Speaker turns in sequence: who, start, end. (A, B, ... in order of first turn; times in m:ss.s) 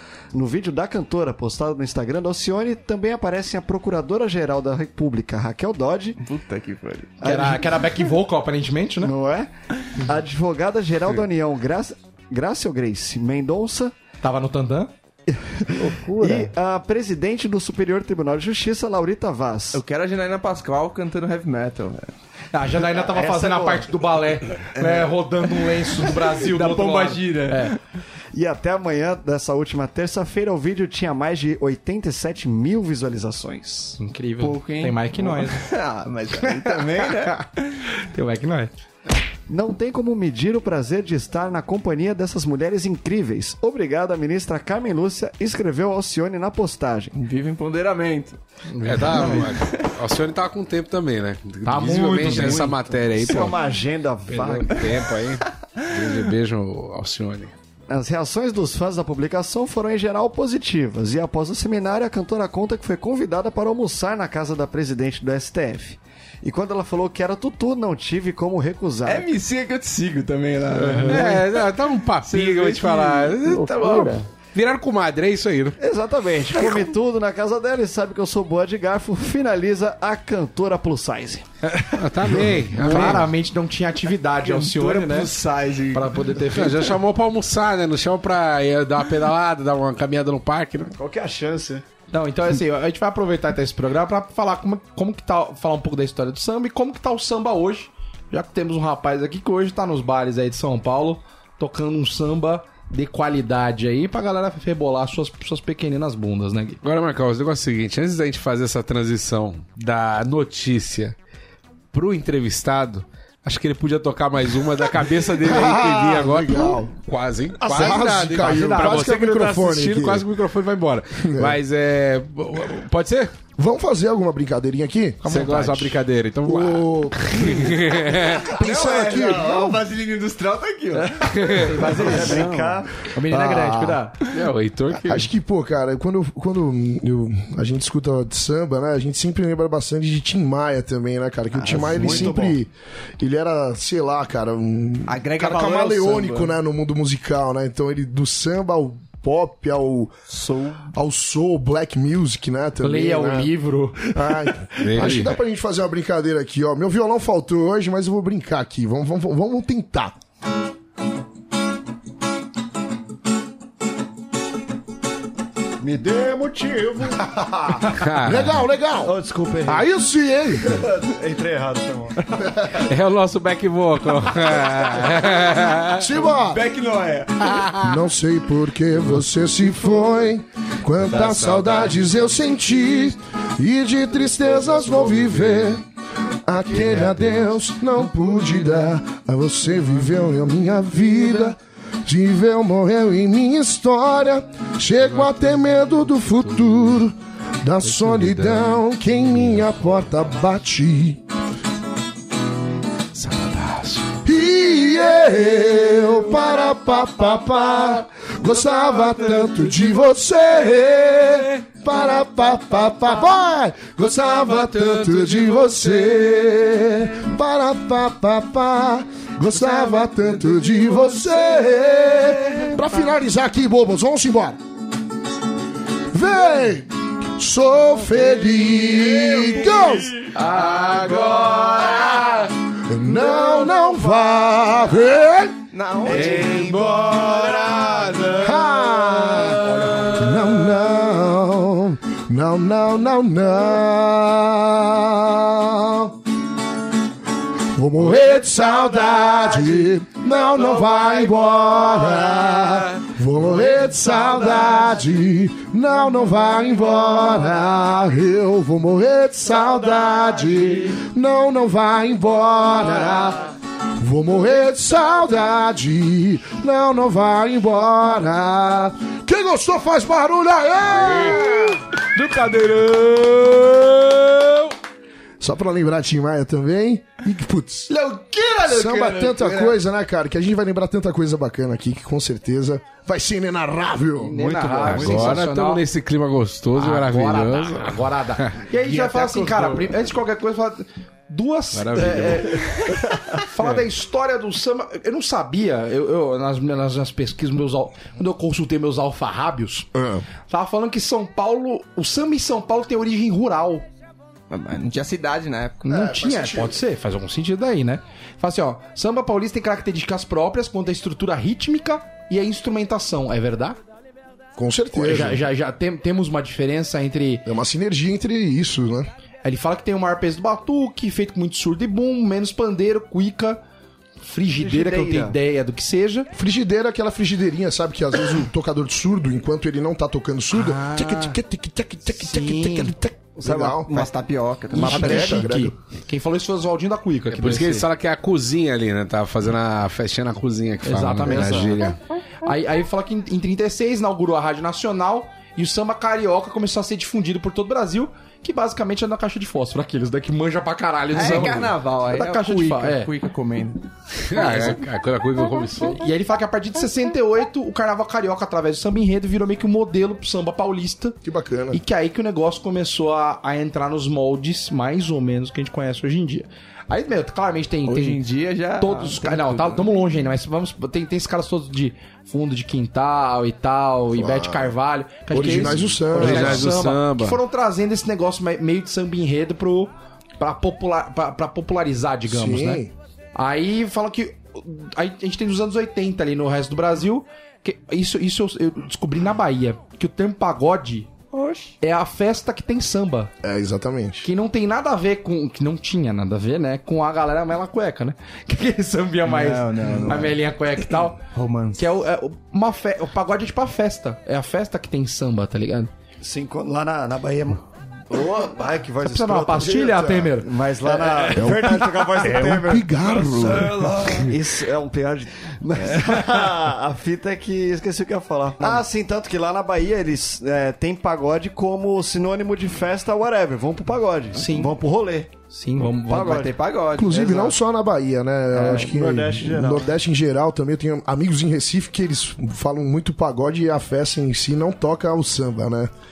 0:00.3-0:06.2 A
0:06.2-0:07.2 B
0:07.2-0:07.9 A
0:07.2-0:09.1 C
0:09.0-0:13.9 A
0:14.2-0:14.9 C
0:15.3-0:19.8 A
0:19.7-0:22.1 B
0:22.5-0:27.7 C
0:22.8-0:24.0 A
0:24.8-0:25.1 B
0:26.2-0:27.8 B
0:28.3-0:34.0 A
0:34.0-0:35.7 C
0:34.4-0:37.4 B
0:36.4-0:37.4 C
0:38.0-0:38.7 C
0:39.5-0:47.1 A
0:47.1-0:48.4 B
0:48.7-0:49.5 C
0:48.8-0:53.6 D
0:49.1-0:49.9 B
0:51.6-0:52.8 C
0:52.3-0:54.9 A
0:54.3-0:57.5 D
0:57.9-1:09.3 A
1:09.0-1:11.6 B
1:10.8-1:11.3 C
1:10.8-1:15.8 D
1:12.2-1:14.0 B
1:15.8-1:21.5 A
1:22.0-1:23.3 D
1:22.8-1:25.3 C
1:22.9-1:23.2 B
1:24.4-1:26.4 B
1:25.9-1:27.0 C
1:26.5-1:31.0 D
1:31.0-1:31.8 A
1:32.1-1:46.8 C
1:46.8-1:51.2 D
1:51.9-2:03.3 D
1:55.4-1:56.9 E
1:57.6-1:59.1 C
1:57.6-2:00.3 E
2:01.2-2:01.6 E
2:03.6-2:05.2 E
2:05.2-2:06.0 C
2:05.2-2:08.5 D
2:06.4-2:08.0 E
2:08.4-2:12.8 B
2:08.5-2:09.8 E
2:10.9-2:12.5 C
2:11.2-2:12.1 D
2:11.8-2:13.1 A
2:13.1-2:14.2 C
2:13.3-2:14.0 E
2:14.3-2:15.3 D
2:14.9-2:30.1 E
2:21.5-2:22.6 A
2:21.9-2:22.4 B
2:25.1-2:26.5 B
2:30.3-2:30.9 B
2:30.9-2:40.2 E
2:32.8-2:34.4 C
2:34.8-2:35.4 D
2:45.8-2:47.8 A
2:47.9-2:48.6 D
2:48.2-2:49.1 E
2:49.0-2:49.9 A
2:49.6-2:50.9 E
2:50.6-2:52.3 A
2:52.4-2:52.8 E
2:52.7-2:56.1 D
2:55.9-2:56.6 E
2:56.3-2:57.6 B
2:57.4-2:58.0 D
2:57.8-3:05.8 E
3:01.0-3:02.2 D
3:06.5-3:21.2 E
3:15.2-3:16.9 D
3:17.8-3:19.8 D
3:23.1-3:24.2 D
3:24.2-3:44.6 E
3:46.1-3:50.2 E
3:50.3-3:52.5 C
3:50.4-3:52.2 B
3:52.9-3:55.6 E
3:55.7-3:58.6 B
3:56.0-3:57.9 A
3:58.4-4:06.2 E
3:59.6-4:00.2 C
4:07.7-4:31.8 E
4:32.1-4:33.9 C
4:35.4-4:37.9 E
4:37.9-4:39.8 B
4:38.6-4:45.2 E
4:44.2-4:45.8 C
4:44.8-4:48.5 D
4:44.8-4:45.4 A
4:46.8-4:59.9 C
4:48.8-4:50.0 B
4:51.7-4:52.7 D
4:59.9-5:00.2 E
5:00.5-5:03.9 C
5:04.5-5:05.8 B
5:05.8-5:06.8 E
5:05.8-5:13.8 C
5:14.6-5:15.4 E
5:14.9-5:17.5 C
5:17.4-5:19.1 E
5:19.4-5:23.6 C
5:24.2-5:26.3 C
5:24.6-5:25.4 A
5:26.3-5:34.1 E
5:30.5-5:31.4 C
5:32.1-5:32.9 C
5:33.4-5:34.1 A
5:33.7-5:35.0 B
5:34.7-5:35.8 E
5:34.7-5:37.9 C
5:37.3-5:42.0 D
5:40.8-5:41.9 C
5:41.3-5:41.6 A
5:42.4-5:53.1 C
5:51.1-5:53.8 B
5:54.2-5:56.0 D
5:54.4-5:54.8 C
5:56.0-6:01.2 C
6:01.2-6:01.8 E
6:01.7-6:08.2 C
6:07.9-6:09.9 B
6:08.8-6:22.8 C
6:14.2-6:14.7 E
6:15.3-6:16.8 E
6:15.4-6:17.4 D
6:22.3-6:22.9 E
6:23.4-6:31.1 C
6:31.3-6:31.7 B
6:31.8-6:33.3 C
6:33.4-6:34.3 E
6:34.2-6:41.2 C
6:39.2-6:40.4 B
6:41.3-6:41.9 B
6:41.8-6:45.9 C
6:46.2-7:05.3 A
6:49.0-6:51.6 C
6:50.0-6:50.3 E
6:51.4-6:54.1 E
6:53.2-6:54.2 B
7:04.4-7:04.8 C
7:05.5-7:06.5 C
7:05.9-7:06.6 A
7:06.2-7:07.5 B
7:07.0-7:15.9 E
7:08.5-7:09.9 A